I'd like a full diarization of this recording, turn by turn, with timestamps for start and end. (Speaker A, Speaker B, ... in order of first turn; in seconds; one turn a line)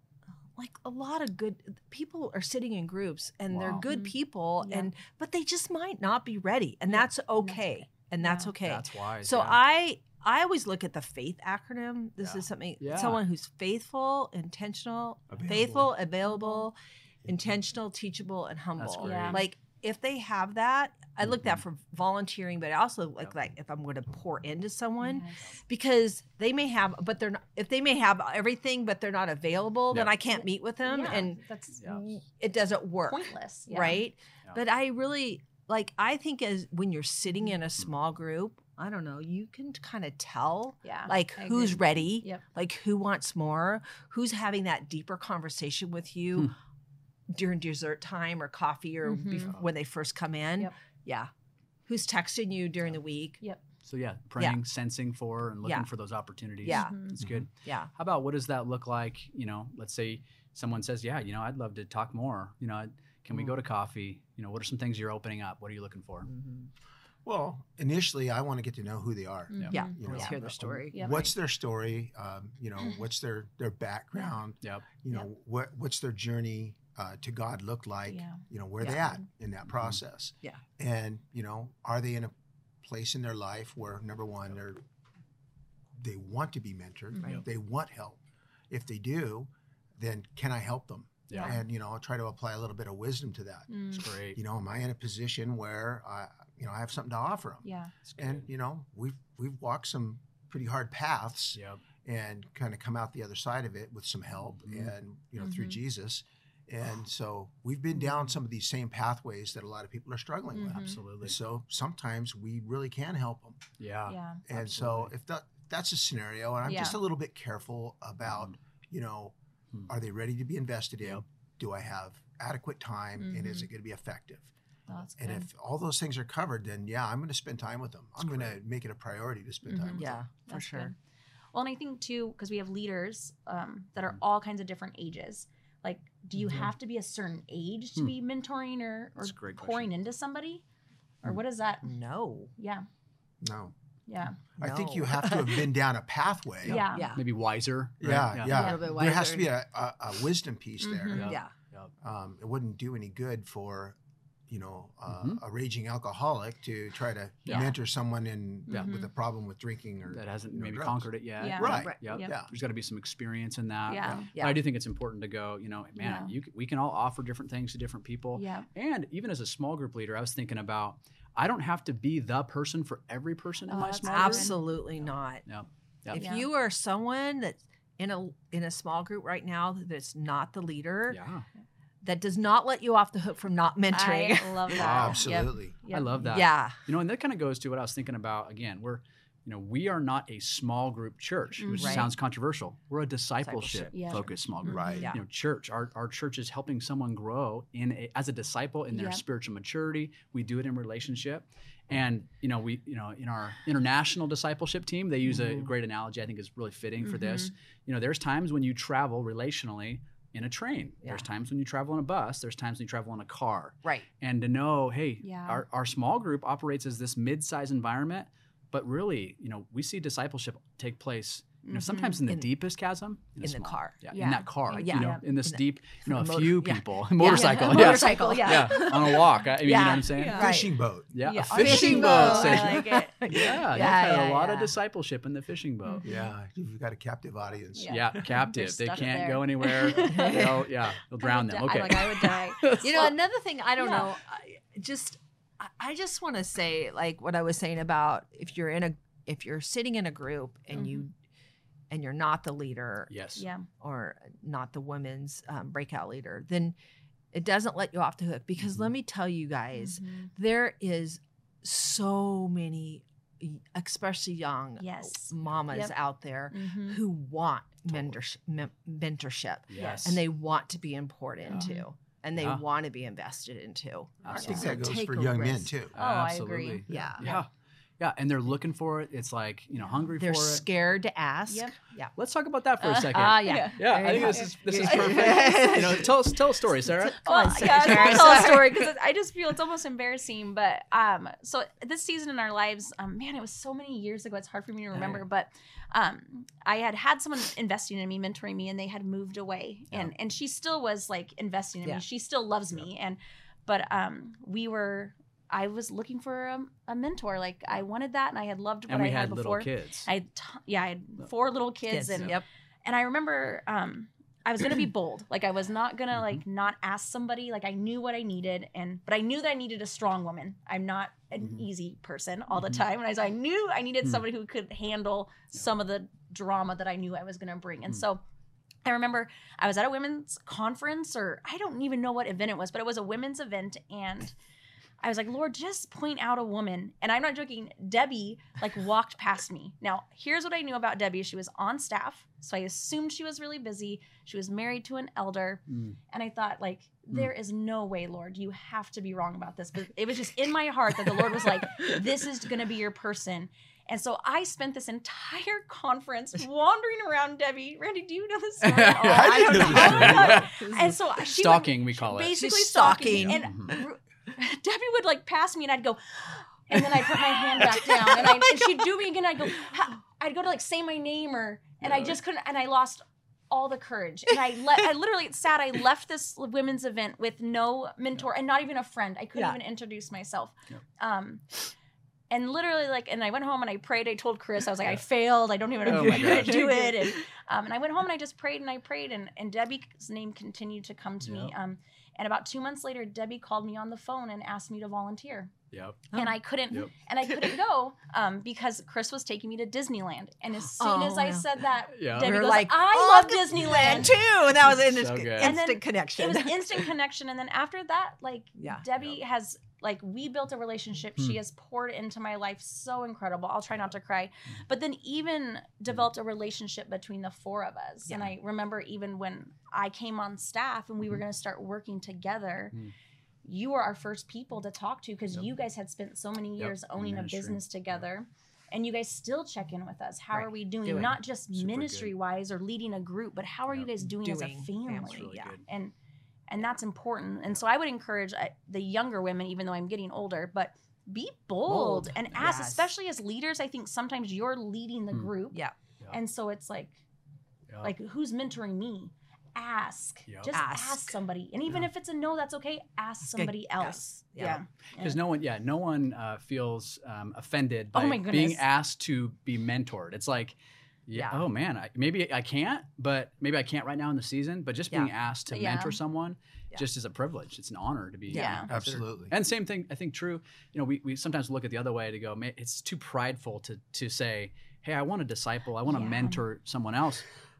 Speaker A: 0.6-46.5
Speaker B: 3.5-3.9
Speaker C: 3.8-4.9
Speaker C: 6.9-8.5
Speaker B: 8.6-9.6
Speaker B: 12.2-13.2
Speaker D: 15.3-15.9
Speaker C: 16.2-16.7
Speaker B: 18.8-19.5
Speaker C: 19.0-19.4
Speaker C: 25.0-25.5
Speaker B: 29.9-30.2
Speaker C: 30.3-31.8
Speaker C: 33.0-34.0
Speaker C: 40.8-42.4
Speaker A: 47.3-51.3
Speaker C: 49.0-49.5
Speaker A: 51.9-53.4
Speaker B: 53.9-66.3
Speaker A: 56.6-57.0
Speaker C: 56.6-57.2
Speaker A: 57.6-57.9
Speaker A: 66.3-66.7
Speaker D: 67.2-84.8
Speaker C: 69.5-70.4
Speaker A: 69.7-71.3
Speaker C: 70.9-71.2
Speaker C: 78.1-78.4
Speaker A: 78.8-79.2
Speaker D: 86.0-88.2
Speaker C: 87.1-87.4
Speaker D: 88.7-97.7
Speaker B: 91.3-91.6
Speaker C: 91.3-91.6
Speaker C: 93.7-94.1
Speaker B: 93.9-94.4
Speaker C: 97.6-97.9
Speaker B: 98.0-98.5
Speaker D: 98.2-113.6
Speaker B: 101.5-101.8
Speaker B: 104.5-104.9
Speaker C: 105.4-105.8
Speaker C: 110.5-111.0
Speaker B: 110.7-111.4
Speaker B: 113.8-115.1
Speaker C: 114.1-114.4
Speaker D: 114.5-119.3
Speaker C: 116.7-117.0
Speaker B: 118.3-118.5
Speaker D: 119.9-124.5
Speaker C: 123.2-123.7
Speaker C: 124.9-125.5
Speaker D: 125.2-130.2
Speaker C: 129.7-131.0
Speaker A: 130.0-130.9
Speaker C: 131.5-140.6
Speaker B: 139.2-139.9
Speaker C: 141.2-141.9
Speaker A: 141.8-142.5
Speaker C: 142.6-142.9
Speaker D: 143.4-143.7
Speaker C: 144.1-144.4
Speaker D: 144.6-146.8
Speaker A: 144.6-145.7
Speaker C: 146.7-147.1
Speaker A: 146.7-147.2
Speaker B: 147.1-148.6
Speaker D: 148.0-151.4
Speaker A: 148.5-149.5
Speaker C: 148.5-148.8
Speaker C: 150.8-151.3
Speaker B: 151.1-151.9
Speaker A: 151.2-151.5
Speaker D: 152.0-154.0
Speaker D: 154.5-162.5
Speaker B: 155.1-155.4
Speaker B: 157.5-157.7
Speaker C: 158.7-159.1
Speaker B: 160.1-174.6
Speaker C: 161.4-162.3
Speaker A: 161.7-162.0
Speaker C: 163.9-164.3
Speaker A: 164.3-164.6
Speaker C: 166.0-166.3
Speaker C: 168.3-168.7
Speaker C: 173.7-174.6
Speaker A: 174.1-175.4
Speaker B: 175.5-176.2
Speaker A: 176.1-181.2
Speaker C: 176.2-176.5
Speaker B: 181.1-181.4
Speaker A: 182.0-185.1
Speaker C: 183.9-186.3
Speaker B: 184.7-230.5
Speaker D: 184.8-185.8
Speaker A: 186.3-186.8
Speaker C: 191.6-192.1
Speaker A: 191.8-192.1
Speaker A: 193.4-194.3
Speaker C: 193.9-195.1
Speaker D: 194.7-195.1
Speaker C: 198.9-199.2
Speaker A: 205.3-205.7
Speaker C: 207.0-207.5
Speaker C: 215.2-215.7
Speaker C: 221.6-222.2
Speaker A: 223.4-224.0
Speaker C: 224.1-225.3
Speaker A: 224.7-230.8
Speaker C: 227.2-229.3
Speaker C: 230.1-230.6
Speaker D: 230.3-231.1
Speaker B: 231.1-236.1
Speaker C: 231.2-233.2
Speaker A: 231.4-234.7
Speaker C: 235.8-236.3
Speaker D: 236.0-238.1
Speaker C: 237.8-240.6
Speaker B: 237.9-243.1
Speaker A: 240.0-240.7
Speaker C: 241.2-243.1
Speaker A: 242.7-251.1
Speaker C: 243.8-244.1
Speaker C: 250.7-251.1
Speaker A: 251.9-253.1
Speaker B: 253.1-253.4
Speaker C: 253.4-253.7
Speaker A: 253.7-256.8
Speaker A: 257.3-275.7
Speaker B: 258.6-258.9
Speaker C: 259.8-260.3
Speaker C: 264.8-266.0
Speaker C: 266.5-267.0
Speaker B: 269.7-270.2
Speaker C: 269.8-270.1
Speaker C: 271.5-271.9
Speaker B: 272.4-272.6
Speaker B: 274.2-274.8
Speaker C: 274.3-274.7
Speaker D: 274.3-275.9
Speaker B: 275.9-280.7
Speaker C: 275.9-277.4
Speaker A: 276.9-277.4
Speaker A: 280.2-282.1
Speaker C: 281.5-281.8
Speaker B: 282.2-288.0
Speaker C: 282.8-285.6
Speaker A: 283.1-286.2
Speaker A: 286.9-288.9
Speaker C: 287.2-328.2
Speaker B: 308.9-310.1
Speaker A: 311.9-312.5
Speaker B: 316.1-316.4
Speaker C: 328.9-334.4
Speaker C: 335.0-381.4
Speaker B: 345.7-345.9
Speaker B: 358.6-360.5
Speaker D: 359.1-360.5
Speaker A: 359.7-361.0
Speaker B: 361.2-363.8
Speaker A: 362.3-363.8
Speaker A: 367.2-368.8
Speaker B: 371.8-372.1
Speaker C: 382.3-395.5
Speaker B: 385.9-386.6
Speaker A: 385.9-387.2
Speaker B: 391.2-391.5
Speaker B: 395.7-396.1
Speaker C: 396.1-404.1
Speaker A: 400.8-401.6
Speaker B: 401.9-402.4
Speaker A: 402.1-406.9
Speaker B: 404.6-405.6
Speaker C: 405.4-422.8
Speaker A: 408.6-408.8
Speaker A: 418.1-418.3
Speaker C: 423.4-435.9
Speaker B: 426.6-427.6
Speaker A: 430.3-431.2
Speaker B: 430.9-432.1
Speaker A: 434.0-435.5
Speaker B: 434.9-435.6
Speaker C: 436.5-447.0
Speaker A: 441.7-442.9
Speaker C: 447.8-455.2
Speaker B: 450.3-450.5
Speaker A: 450.5-451.2
Speaker A: 453.3-454.6
Speaker B: 455.0-460.6
Speaker C: 457.9-458.6
Speaker B: 461.1-477.3
Speaker A: 461.2-461.4
Speaker C: 465.5-466.0
Speaker C: 468.3-468.7
Speaker A: 468.3-468.7
Speaker D: 468.7-469.3
Speaker C: 475.9-476.4